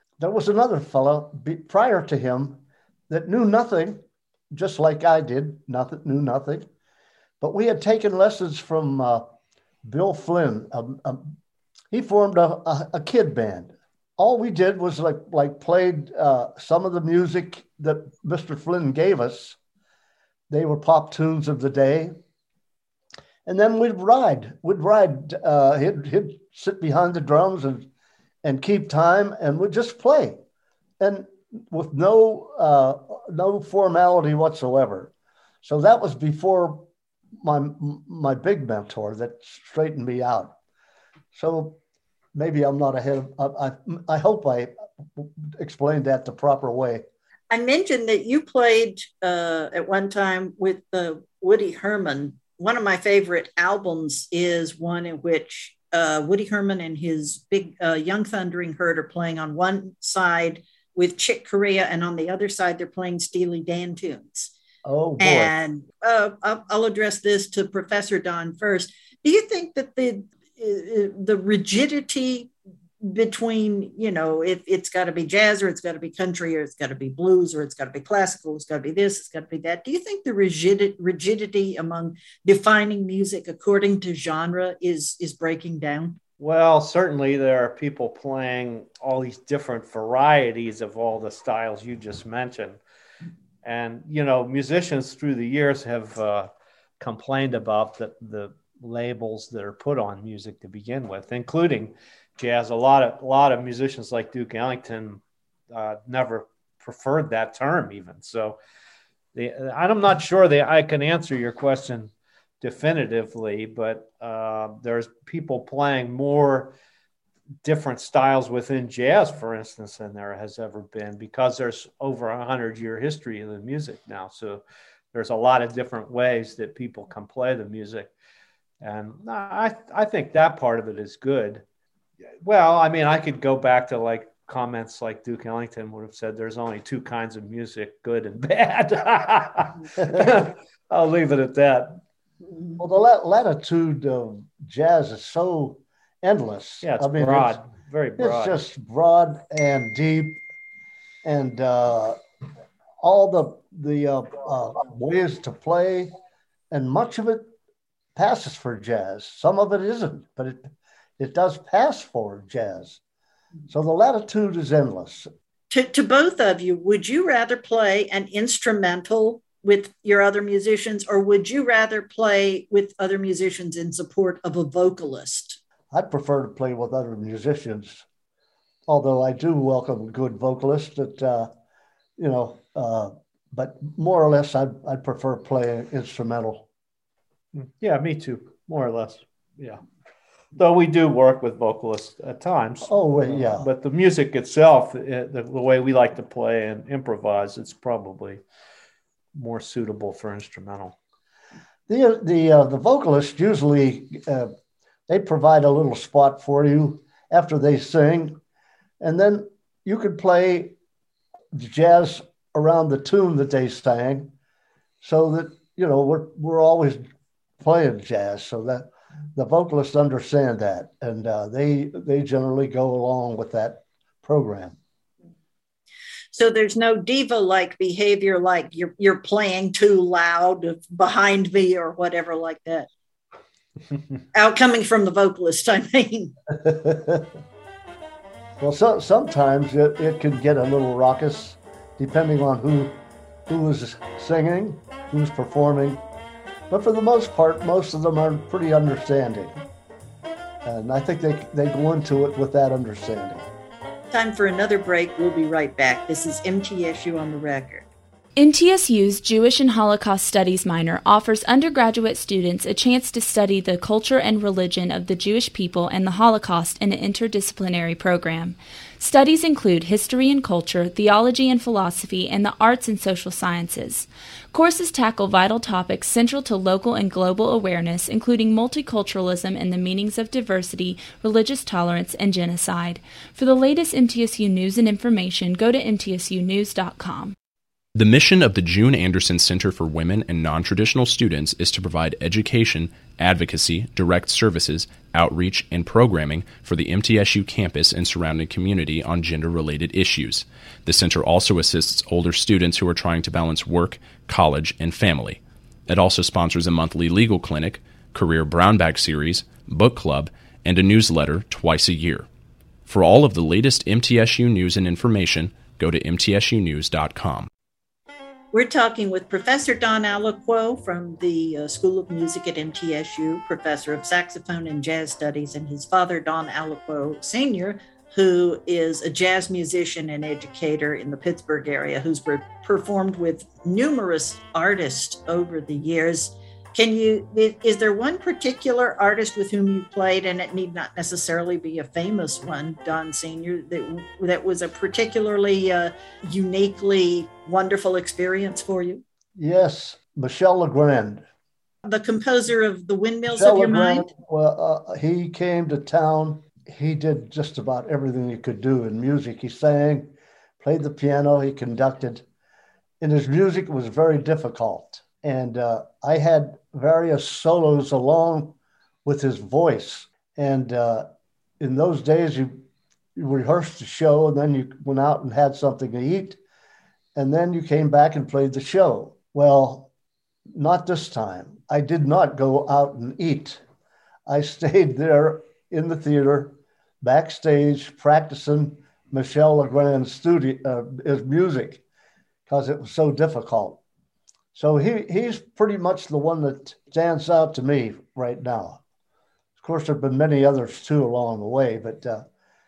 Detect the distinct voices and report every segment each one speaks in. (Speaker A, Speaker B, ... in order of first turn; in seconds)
Speaker A: 0.2-6.7, 7.4-9.2, 9.8-11.3, 11.9-19.6, 20.5-22.1, 23.4-27.9, 28.4-30.4, 31.0-35.1, 35.6-36.9, 37.4-40.6, 41.3-41.8, 42.4-47.0, 64.8-65.5, 142.8-147.6, 148.2-150.4, 151.2-152.2, 153.0-156.1, 156.7-157.4, 158.2-163.0, 163.7-165.3, 175.9-178.1, 178.9-181.5, 182.2-186.7, 192.9-193.7, 201.9-204.5, 205.1-208.4, 209.0-210.8, 211.5-214.3, 215.0-217.0, 217.6-224.8, 236.5-237.3, 238.6-246.0, 246.7-249.5, 250.6-253.4, 349.4-351.2, 353.3-362.2, 363.0-371.1, 371.6-372.6, 373.1-376.4, 377.1-379.9, 380.5-383.6, 384.3-391.8, 392.5-393.8, 394.5-398.8, 399.6-402.2
Speaker B: 47.5-64.5, 65.2-86.2, 165.7-175.6, 226.3-232.9, 234.3-236.3, 254.1-257.9, 318.5-349.0, 351.9-354.1
Speaker C: 86.4-92.8, 93.6-108.6, 109.3-116.7, 117.6-124.6, 125.1-128.1, 128.8-131.6, 132.4-142.0, 146.8-148.6, 187.6-189.8, 190.6-198.4, 199.3-200.9
Speaker D: 258.4-287.4
Speaker E: 287.9-312.3, 312.9-317.5